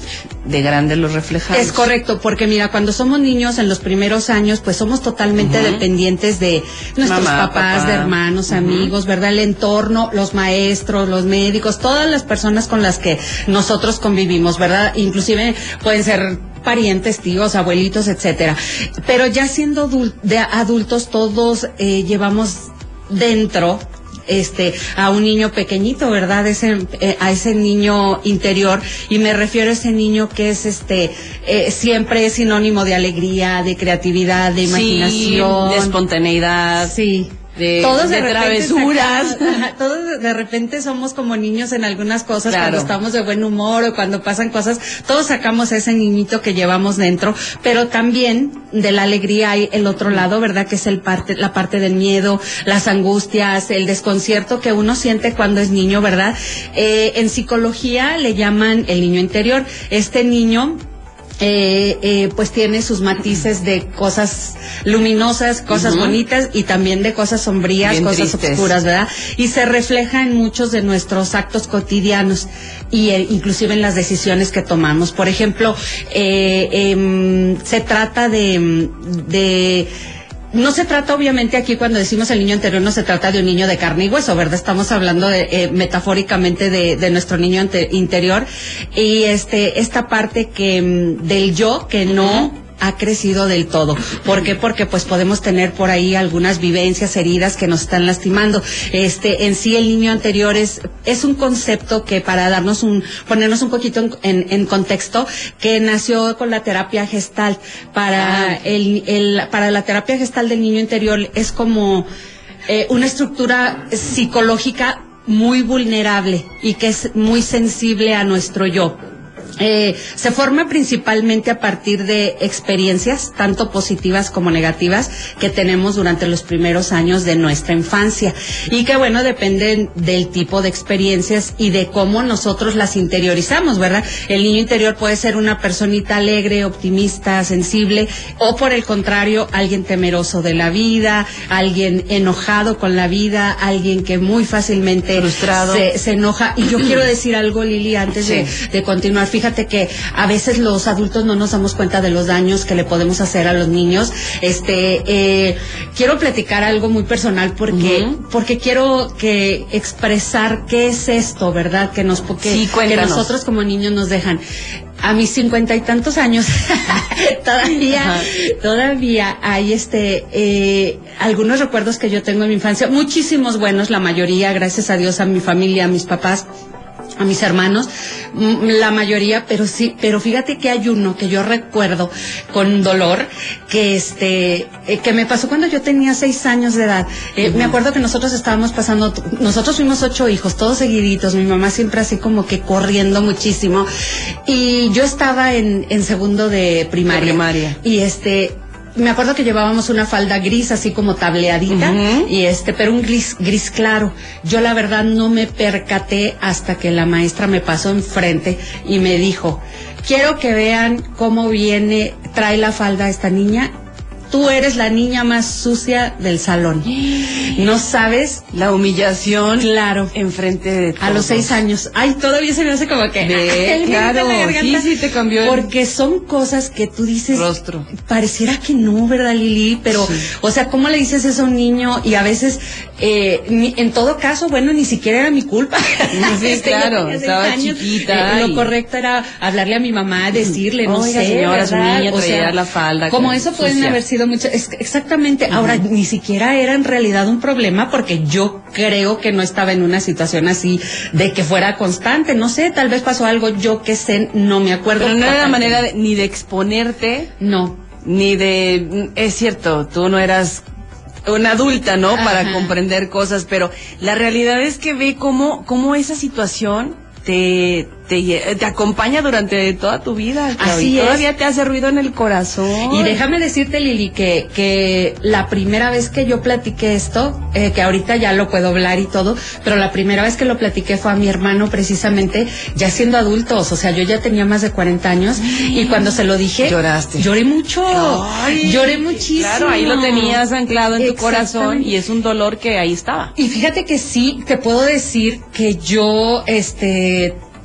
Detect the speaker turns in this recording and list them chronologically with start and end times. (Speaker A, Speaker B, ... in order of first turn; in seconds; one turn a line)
Speaker A: 0.4-1.9
Speaker B: 1.5-36.0
Speaker A: 5.4-5.8
Speaker A: 7.0-8.9
Speaker A: 34.6-37.0
Speaker B: 36.8-60.8
Speaker A: 37.5-39.6
Speaker A: 42.5-42.9
Speaker B: 61.4-79.9
Speaker A: 65.7-66.2
Speaker A: 67.8-68.7
Speaker B: 80.5-112.1
Speaker A: 92.2-92.5
Speaker A: 108.2-108.6
Speaker B: 112.7-119.0
Speaker B: 119.6-164.4
Speaker A: 145.2-145.9
Speaker A: 148.2-148.5
Speaker A: 157.7-158.2
Speaker A: 162.4-163.3
Speaker B: 165.0-176.4
Speaker A: 167.9-168.3
Speaker B: 177.2-193.9
Speaker A: 187.4-187.8
Speaker B: 194.5-213.7
Speaker A: 197.1-197.8
Speaker A: 201.7-202.3
Speaker B: 214.3-218.4
Speaker A: 216.9-217.7
Speaker A: 218.5-221.6
Speaker B: 219.6-220.1
Speaker B: 221.0-242.6
Speaker A: 223.2-225.7
Speaker A: 227.3-227.9
Speaker A: 229.9-230.3
Speaker A: 236.1-238.7
Speaker A: 240.8-244.0
Speaker B: 243.1-255.8
Speaker A: 245.5-245.8
Speaker A: 255.0-257.3
Speaker B: 257.4-257.8
Speaker A: 258.0-260.6
Speaker A: 261.3-273.2
Speaker B: 262.1-262.7
Speaker B: 270.6-271.3
Speaker B: 272.9-290.4
Speaker A: 285.4-287.3
Speaker A: 287.9-293.3
Speaker B: 291.0-291.9
Speaker B: 293.4-297.4